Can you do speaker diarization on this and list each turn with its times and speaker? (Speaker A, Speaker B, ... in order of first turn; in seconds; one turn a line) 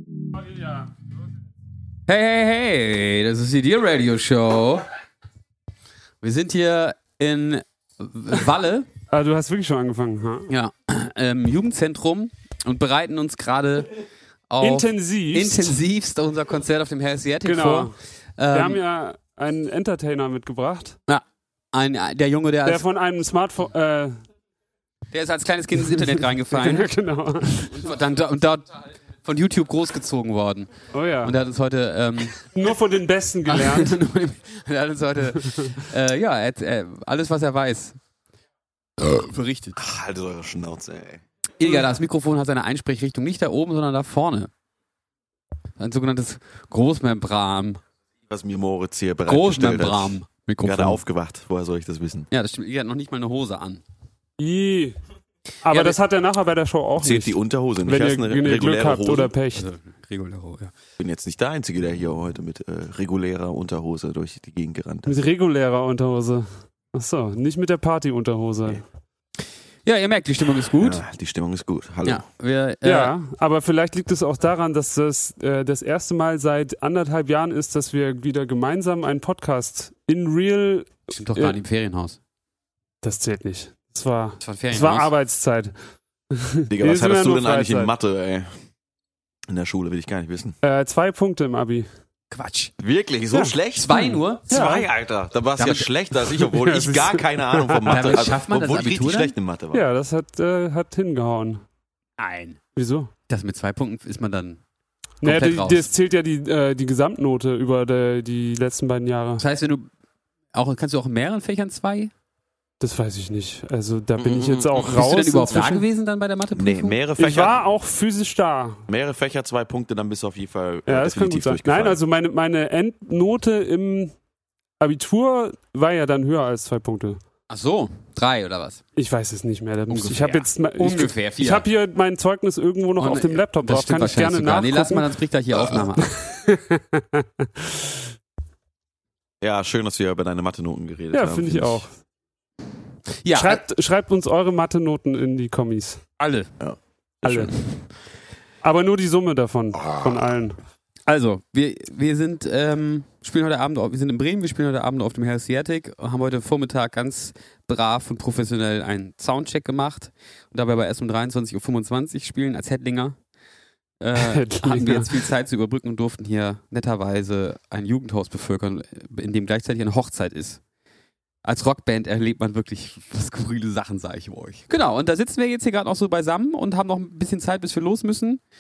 Speaker A: 2.1-4.9
Speaker A: 6.2-8.9
Speaker B: 9.1-10.5
Speaker A: 10.5-13.9
Speaker A: 14.5-18.8
Speaker B: 14.6-15.8
Speaker B: 17.4-17.9
Speaker B: 18.5-21.0
Speaker A: 21.1-22.8
Speaker B: 22.6-24.2
Speaker A: 25.1-26.9
Speaker B: 25.8-27.8
Speaker A: 27.6-32.4
Speaker B: 30.9-31.4
Speaker B: 32.4-34.0
Speaker A: 33.5-38.0
Speaker A: 39.0-39.8
Speaker C: 39.8-41.2
Speaker A: 41.6-44.5
Speaker A: 45.8-47.8
Speaker C: 48.3-52.3
Speaker A: 49.2-51.0
Speaker A: 52.3-53.8
Speaker B: 54.4-55.0
Speaker B: 55.6-59.7
Speaker A: 55.7-56.0
Speaker C: 57.0-59.3
Speaker A: 59.5-60.7
Speaker C: 61.0-65.2
Speaker B: 65.1-68.8
Speaker A: 69.8-71.0
Speaker C: 70.8-72.2
Speaker A: 72.0-73.1
Speaker B: 72.8-81.6
Speaker A: 81.1-82.2
Speaker B: 83.0-85.8
Speaker A: 84.4-85.1
Speaker B: 86.3-87.9
Speaker C: 86.7-88.5
Speaker C: 89.5-90.6
Speaker B: 90.6-91.9
Speaker A: 92.3-92.7
Speaker C: 92.8-99.8
Speaker B: 93.3-94.8
Speaker A: 93.8-94.7
Speaker A: 95.6-95.9
Speaker B: 96.3-98.0
Speaker A: 97.8-99.3
Speaker B: 99.7-101.6
Speaker A: 102.2-102.6
Speaker B: 102.8-103.1
Speaker A: 103.3-104.6
Speaker A: 105.2-105.9
Speaker B: 105.2-109.4
Speaker A: 109.4-109.9
Speaker A: 110.5-112.1
Speaker B: 112.8-115.8
Speaker C: 114.2-114.9
Speaker A: 114.8-117.0
Speaker C: 116.5-117.6
Speaker B: 117.2-118.8
Speaker C: 118.9-122.0
Speaker B: 120.9-124.2
Speaker B: 124.8-127.2
Speaker A: 127.5-128.8
Speaker B: 129.0-137.8
Speaker A: 129.9-131.7
Speaker A: 133.0-136.1
Speaker C: 139.4-141.8
Speaker B: 141.1-141.9
Speaker A: 143.2-143.6
Speaker B: 143.3-146.0
Speaker A: 146.2-146.5
Speaker C: 146.6-147.5
Speaker B: 148.6-150.6
Speaker C: 149.8-150.3
Speaker A: 151.1-163.2
Speaker A: 164.0-170.6
Speaker B: 164.2-165.2
Speaker A: 171.4-178.4